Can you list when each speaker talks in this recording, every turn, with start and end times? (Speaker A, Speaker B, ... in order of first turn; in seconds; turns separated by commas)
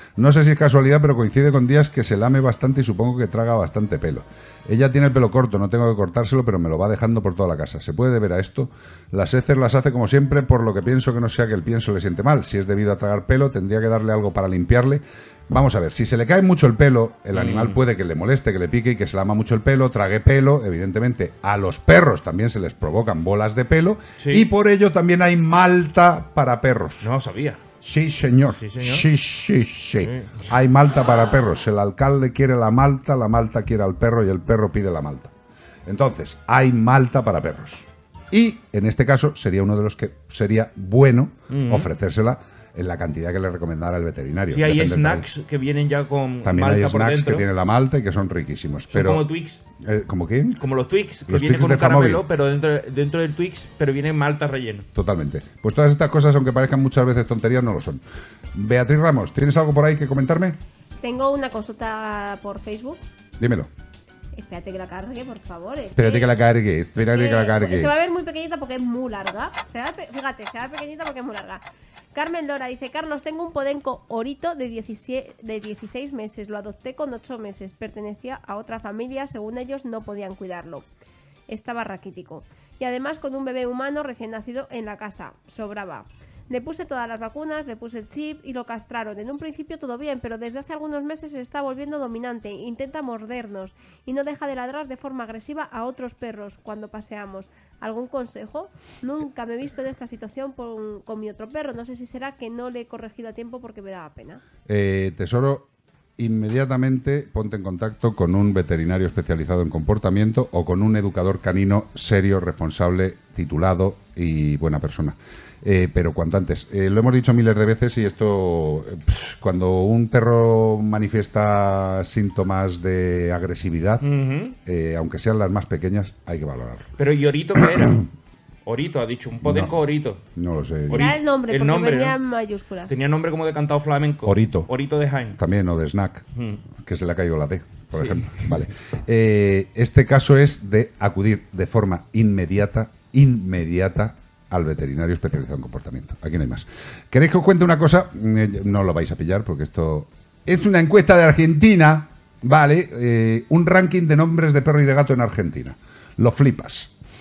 Speaker A: 0.2-27.1, Speaker B: 17.3-17.8, Speaker B: 24.2-24.5, Speaker B: 27.0-27.6, Speaker A: 27.8-35.3, Speaker B: 28.6-29.1, Speaker B: 30.0-30.5, Speaker A: 35.9-45.3, Speaker B: 41.5-41.9, Speaker B: 44.5-47.5, Speaker A: 46.4-49.2, Speaker B: 48.9-49.6, Speaker A: 49.8-50.6, Speaker B: 50.6-54.9, Speaker A: 51.3-52.2, Speaker A: 54.9-58.0, Speaker A: 58.5-60.6, Speaker C: 61.0-63.0, Speaker A: 63.4-63.7, Speaker C: 64.3-66.3, Speaker A: 65.9-67.9, Speaker C: 67.0-71.6, Speaker C: 72.1-80.8, Speaker C: 81.5-104.4, Speaker A: 104.7-124.0, Speaker B: 124.0-124.5, Speaker A: 124.6-126.9, Speaker B: 127.0-128.1, Speaker A: 127.6-128.0, Speaker B: 128.7-130.2, Speaker A: 129.4-129.7, Speaker A: 130.3-131.1, Speaker B: 130.9-132.2, Speaker C: 130.9-132.9, Speaker B: 132.9-135.4, Speaker A: 134.2-134.7, Speaker A: 135.3-136.2, Speaker B: 136.3-136.6, Speaker A: 136.8-156.9, Speaker B: 137.9-138.6